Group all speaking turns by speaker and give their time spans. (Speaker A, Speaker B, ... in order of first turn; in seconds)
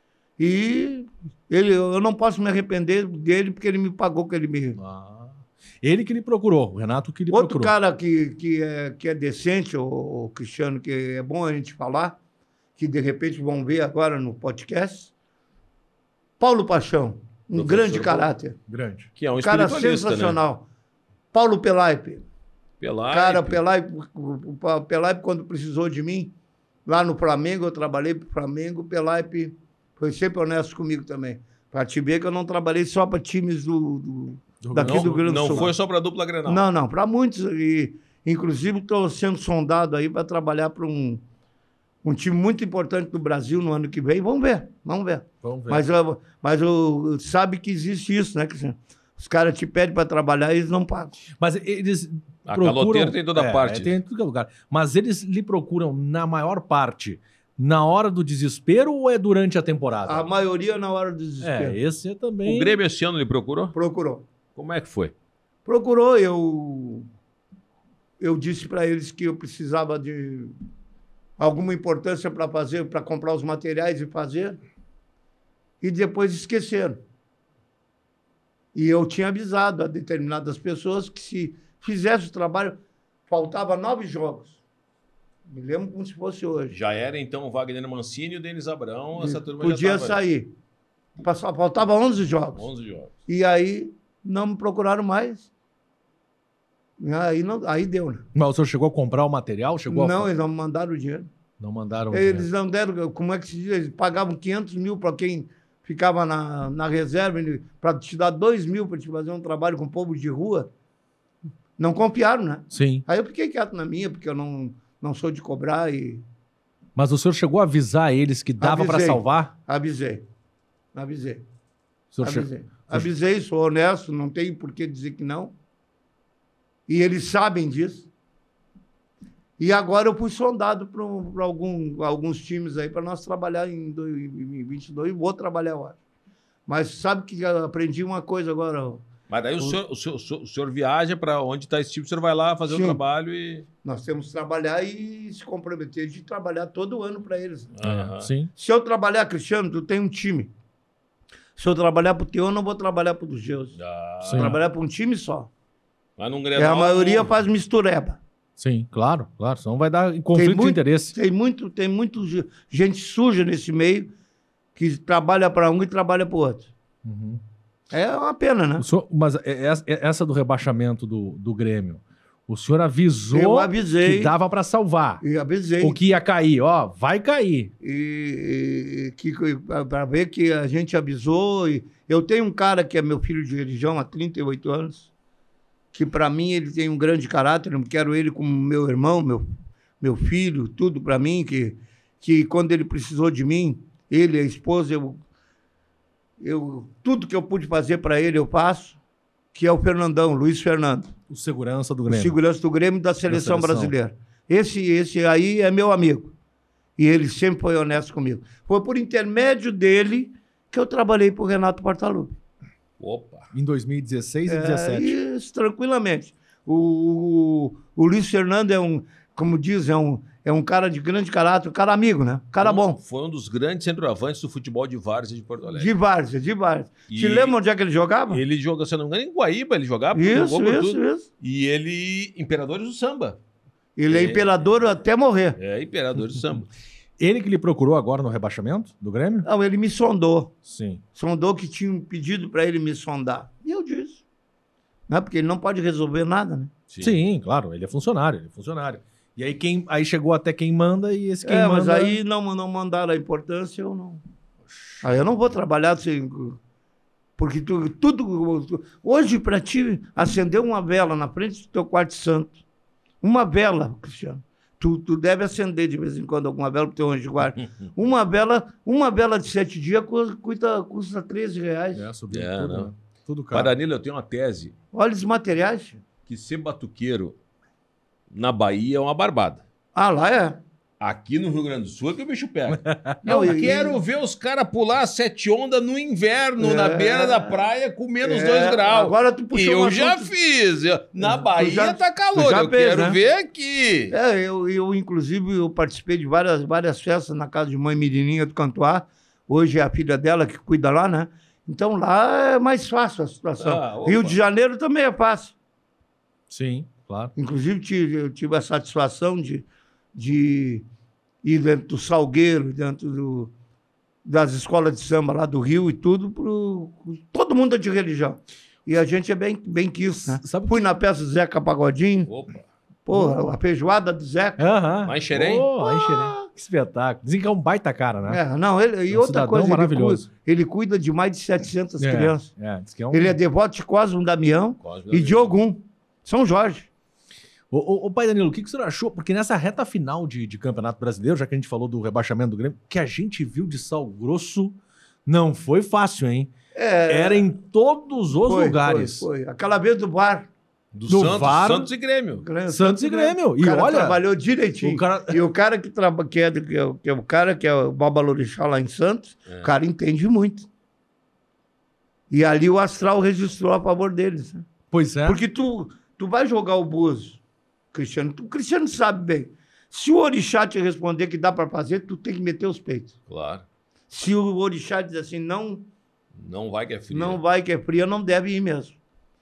Speaker A: 0.4-4.8, 7.3-12.2, 12.8-15.1, 16.4-18.6, 19.4-20.7, 21.3-22.3, 23.1-26.3, 26.9-35.7, 36.5-41.2, 42.0-51.2, 60.0-61.8, 63.7-64.3, 65.7-67.1, 68.2-70.5, 71.4-74.6, 75.8-77.0, 78.7-84.6, 85.5-86.8, 89.2-90.5, 91.2-92.7, 93.3-95.5, 97.0-98.2, 99.9-101.3, 102.1-110.7, 111.8-116.2, 118.6-120.2, 120.9-121.4, 122.2-125.5, 126.9-128.1, 129.6-136.0, 136.7-139.1, 142.7-143.0, 143.8-147.7, 148.6-150.5, 151.6-153.8, 154.3-155.5, 156.6-158.2, 160.3-164.1, 164.8-166.7, 167.9-168.9, 173.3-174.3, 175.2-176.0, 177.8-185.1, 185.9-189.5, 190.0-195.2, 196.4-199.0, 199.5-201.1, 202.1-206.3, 207.0-212.4, 214.5-223.0, 225.8-228.4, 230.1-231.3, 234.0-235.6, 239.4-240.5, 241.2-244.2, 245.1-246.7, 251.4-254.2, 255.0-256.6, 257.4-262.6, 263.2-272.0, 274.9-276.0, 279.9-280.6, 283.2-284.0, 286.6-287.6, 288.2-290.3, 291.2-293.2, 294.1-305.5, 307.4-310.9, 311.4-313.5, 314.2-322.3, 323.1-324.7, 325.8-326.4, 328.3-332.5, 333.1-336.9, 346.7-347.5, 348.3-350.5, 352.4-360.7, 362.3-364.7, 365.2-367.4, 367.9-373.1, 374.1-375.9, 377.1-379.0
Speaker B: 4.8-7.7, 18.7-19.1, 34.6-35.7, 45.4-45.8, 51.4-60.3, 61.4-62.8, 98.3-100.3, 101.6-102.5, 112.7-113.0, 117.0-119.5, 122.1-123.1, 147.8-148.5, 154.2-154.6, 158.6-161.2, 167.1-167.4, 168.8-175.2, 175.8-177.7, 201.3-202.4, 203.3-203.9, 213.5-215.2, 237.2-239.5, 240.7-241.0, 247.0-252.2, 254.7-255.2, 271.9-273.7, 282.7-283.2, 306.5-307.3, 320.2-320.9, 323.1-323.5, 324.6-328.4, 329.1-330.3, 332.0-333.4, 337.7-346.5, 347.1-349.3, 351.1-351.9, 352.7-354.2, 354.8-355.4, 364.9-365.4
Speaker C: 17.5-18.3, 19.2-20.4, 22.8-23.6, 34.8-36.6, 52.5-54.0, 62.4-63.8, 64.6-65.1, 86.7-90.2, 92.5-93.1, 139.3-143.7, 147.8-148.3, 153.8-154.6, 156.2-157.3, 213.0-213.5, 222.6-225.9, 227.1-227.6, 228.3-233.4, 234.1-234.7, 235.6-236.7, 246.9-247.2, 272.3-272.9, 273.5-274.7, 276.3-277.4, 278.3-279.6, 281.0-294.1, 303.6-304.4, 322.3-322.6, 325.1-325.7, 334.8-335.6, 350.9-352.5, 373.3-373.6, 376.4-377.4